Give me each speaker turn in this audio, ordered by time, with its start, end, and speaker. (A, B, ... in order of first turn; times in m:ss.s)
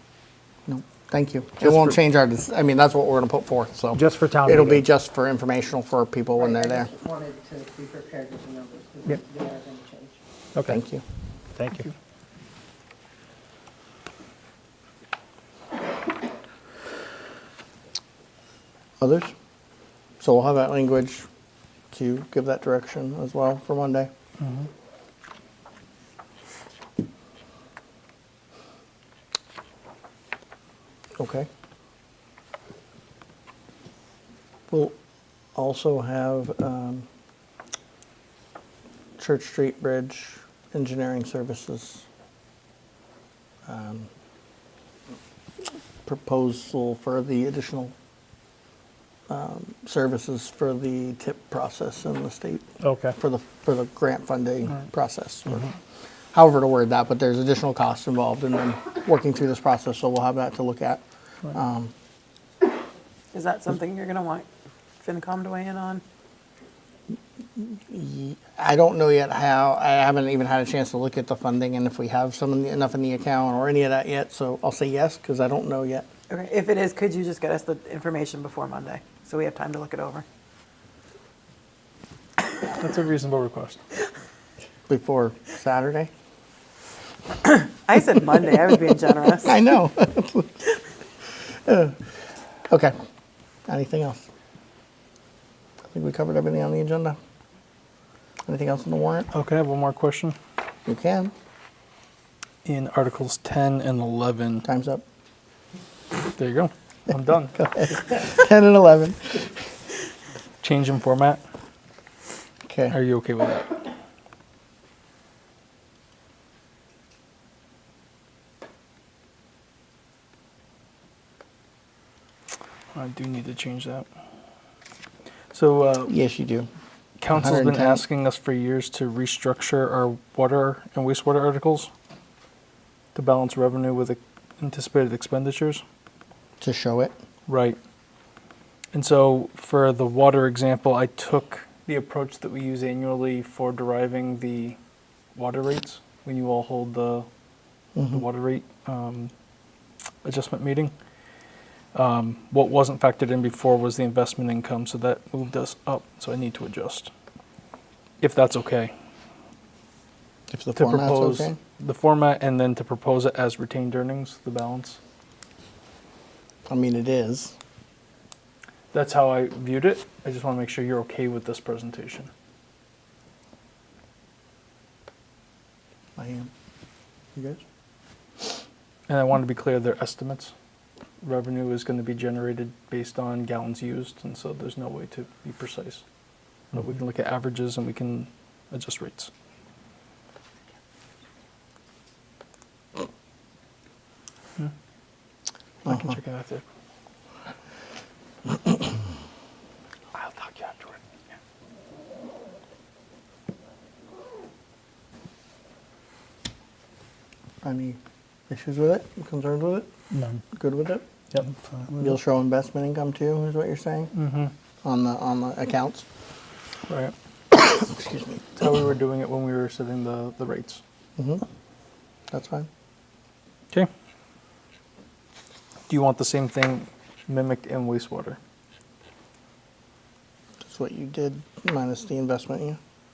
0:00.7-0:06.9 A
0:01.6-0:01.9 B
0:03.9-0:04.8 B
0:06.4-0:10.2 C
0:10.5-0:10.8 B
0:10.6-0:11.0 A
0:11.5-0:11.9 B
0:19.0-0:19.3 A
0:20.2-0:21.2 A
0:21.9-0:24.1 A
0:24.4-0:24.7 D
0:31.2-0:31.5 A
0:35.5-0:37.0 A
0:39.2-0:42.0 A
0:43.6-0:44.1 A
0:46.0-0:47.9 A
0:49.3-0:55.7 A
0:52.8-0:53.1 B
0:56.3-1:01.9 A
1:03.3-1:04.5 E
1:05.0-1:06.0 E
1:07.6-1:16.1 A
1:16.3-1:20.2 E
1:22.6-1:23.8 D
1:24.9-1:26.1 A
1:27.4-1:29.5 E
1:29.3-1:30.7 A
1:31.6-1:32.1 A
1:32.7-1:32.9 A
1:33.7-1:34.2 A
1:35.9-1:37.2 A
1:38.4-1:39.3 A
1:39.3-1:40.4 D
1:40.8-1:41.3 A
1:42.6-1:44.6 D
1:44.6-1:45.0 A
1:46.3-1:47.6 D
1:47.6-1:49.6 A
1:50.6-1:51.4 D
1:52.7-1:53.0 A
1:52.9-1:53.8 D
2:02.9-2:04.1 D
2:05.5-2:06.1 D
2:06.1-2:06.7 A
2:07.2-2:11.9 D
2:07.3-2:08.0 A
2:13.1-2:15.8 D
2:16.6-2:17.1 A
2:17.5-2:17.8 D
2:18.9-2:24.8 D
2:25.3-2:27.3 D
2:28.0-2:28.2 A
2:28.1-2:29.3 D
2:30.2-2:30.9 D
2:31.9-2:37.1 D
2:38.2-2:38.9 D
2:40.5-2:41.6 A
2:40.8-2:45.0 D
2:46.6-2:47.5 A
2:48.9-2:52.3 D
2:56.2-2:56.5 A
2:57.3-2:57.6 A
2:59.1-3:00.5 D
3:01.2-3:06.0 D
3:06.7-3:09.3 D
3:15.8-3:16.2 A
3:15.8-3:16.6 D
3:20.1-3:21.0 D
3:27.6-3:29.9 A
3:30.1-3:30.4 B
3:30.5-3:31.0 A
3:32.0-3:34.1 A
3:34.1-3:34.5 D
3:34.8-3:36.0 A
3:36.9-3:37.1 D
3:37.5-3:38.4 A
3:38.6-3:40.8 D
3:41.2-3:41.4 A
3:42.3-3:42.7 A
3:45.9-3:48.4 D
3:50.6-3:52.8 A